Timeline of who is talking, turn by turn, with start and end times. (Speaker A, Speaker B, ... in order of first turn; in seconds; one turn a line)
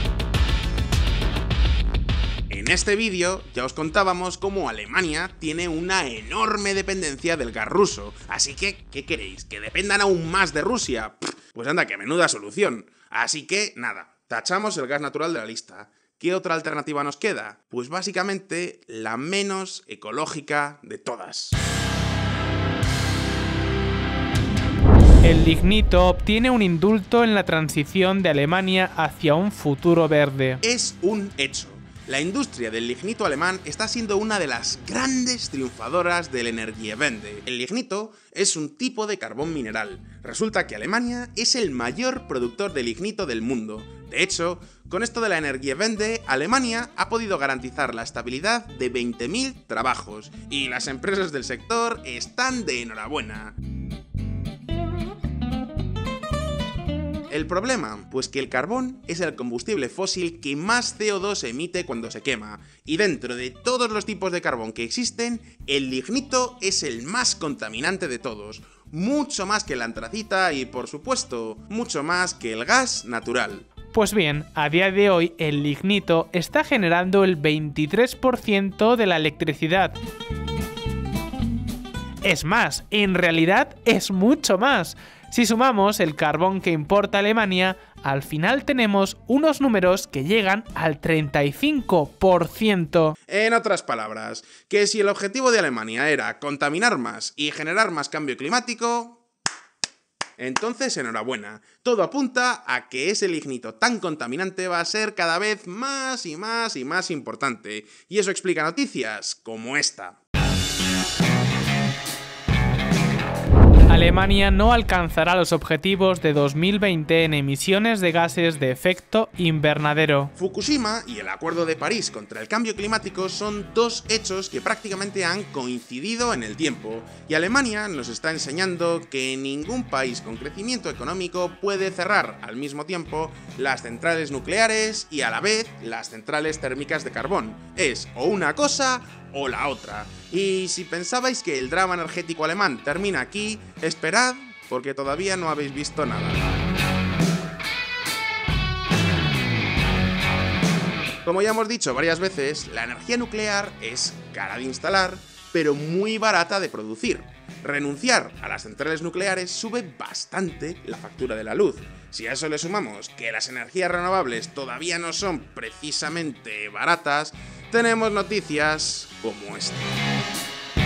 Speaker A: 2.5-21.6
Speaker B: 25.2-30.6
Speaker A: 30.6-53.5
Speaker A: 57.3-73.7
Speaker B: 73.9-80.0
Speaker B: 82.2-93.2
Speaker A: 93.3-99.2
Speaker A: 100.4-110.2
Speaker B: 113.9-120.3
Speaker A: 120.3-146.6
Speaker A: 151.2-169.9